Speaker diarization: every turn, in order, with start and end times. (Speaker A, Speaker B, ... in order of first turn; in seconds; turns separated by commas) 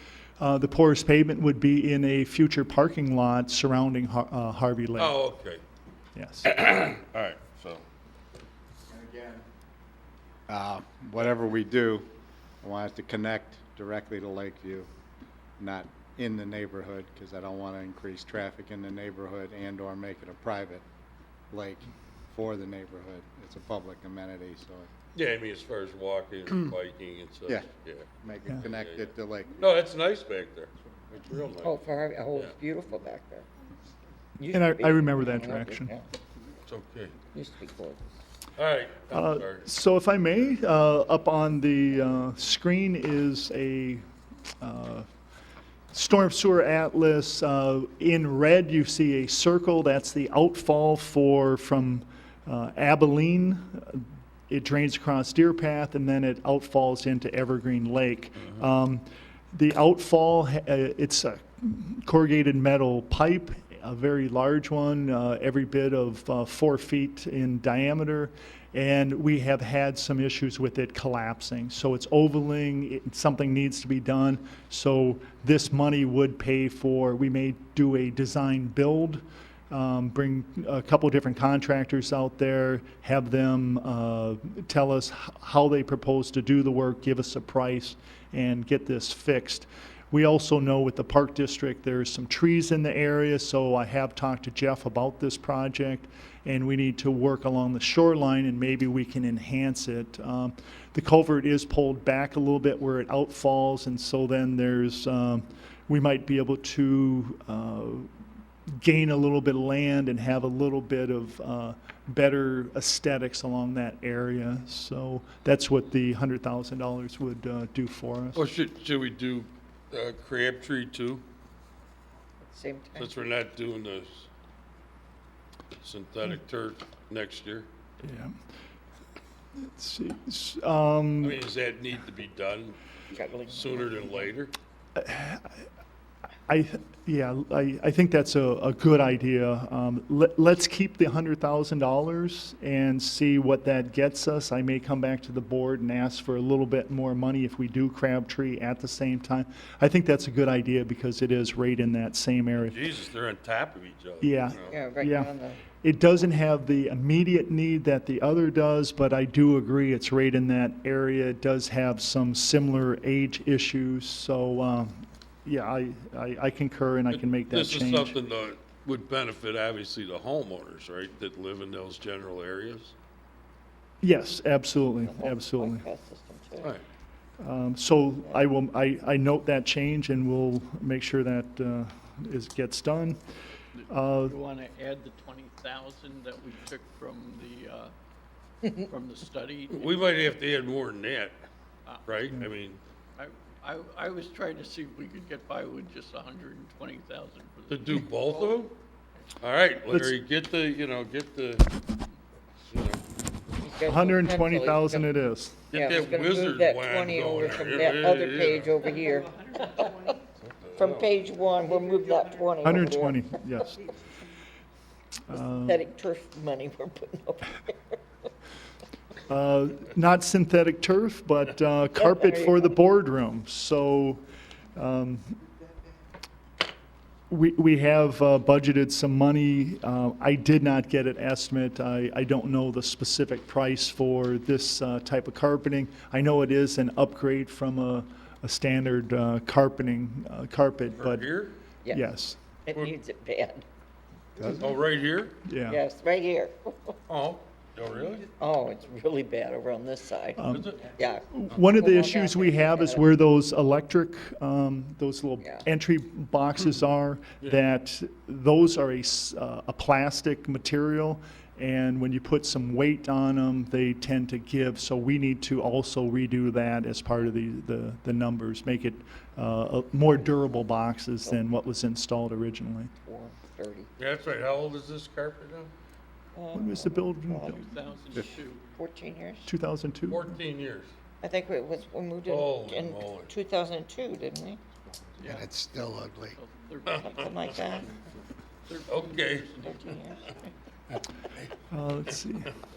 Speaker A: 0.4-5.2, Speaker B: 5.0-5.6, Speaker A: 6.2-6.5, Speaker B: 6.4-7.8, Speaker C: 8.9-9.4, Speaker C: 10.5-12.1, Speaker C: 12.6-14.9, Speaker C: 15.6-20.9, Speaker C: 21.5-24.9, Speaker B: 25.1-28.1, Speaker C: 28.2-29.6, Speaker B: 28.6-31.8, Speaker D: 31.6-33.5, Speaker D: 34.4-36.0, Speaker A: 34.5-35.9, Speaker B: 36.7-37.1, Speaker D: 37.3-38.0, Speaker B: 38.6-39.7, Speaker A: 39.1-44.0, Speaker A: 44.6-45.1, Speaker A: 45.9-108.1, Speaker A: 108.8-118.4, Speaker B: 118.3-121.2, Speaker D: 122.5-123.1, Speaker B: 123.0-124.3, Speaker B: 125.8-127.7, Speaker A: 128.0-128.4, Speaker A: 129.6-131.4, Speaker B: 131.2-132.8, Speaker D: 133.1-134.3, Speaker B: 133.4-134.5, Speaker A: 135.0-135.7, Speaker A: 136.5-152.8, Speaker B: 152.6-154.8, Speaker A: 154.2-168.2, Speaker D: 154.7-155.7, Speaker B: 167.1-172.9, Speaker A: 174.0-175.8, Speaker D: 175.0-176.8, Speaker A: 177.4-183.2, Speaker E: 183.8-187.9, Speaker A: 183.9-184.4, Speaker E: 188.6-190.3, Speaker B: 189.7-191.4, Speaker E: 191.9-192.3, Speaker B: 192.1-192.8, Speaker E: 193.2-198.1, Speaker B: 197.7-198.7, Speaker B: 199.4-201.7, Speaker B: 202.7-203.0, Speaker D: 203.6-205.1, Speaker A: 203.8-205.7, Speaker B: 205.7-208.8, Speaker D: 205.7-210.2, Speaker B: 210.4-211.1, Speaker D: 210.8-213.4, Speaker A: 212.6-213.9, Speaker A: 215.3-215.9, Speaker D: 215.4-218.0, Speaker A: 219.3-224.2, Speaker D: 222.0-222.8, Speaker A: 224.8-225.3, Speaker A: 227.3-241.3, Speaker B: 241.0-241.6, Speaker A: 241.9-242.4, Speaker D: 242.7-243.6, Speaker B: 244.6-245.4, Speaker A: 245.4-245.8, Speaker D: 245.7-247.0, Speaker B: 247.1-248.3, Speaker D: 248.4-253.1, Speaker A: 250.4-250.7, Speaker B: 250.5-250.9, Speaker A: 251.3-272.9, Speaker D: 272.9-273.9, Speaker B: 274.0-275.7, Speaker D: 276.3-279.5, Speaker A: 276.5-277.6, Speaker E: 277.6-278.7, Speaker A: 279.4-280.4, Speaker B: 280.1-280.9, Speaker D: 281.2-284.6, Speaker B: 282.3-283.3, Speaker E: 285.2-285.5, Speaker C: 285.2-286.4, Speaker E: 286.3-288.0, Speaker B: 286.9-287.2, Speaker D: 286.9-287.9, Speaker E: 288.7-290.2, Speaker B: 288.9-289.5, Speaker D: 289.6-290.5, Speaker A: 291.7-292.5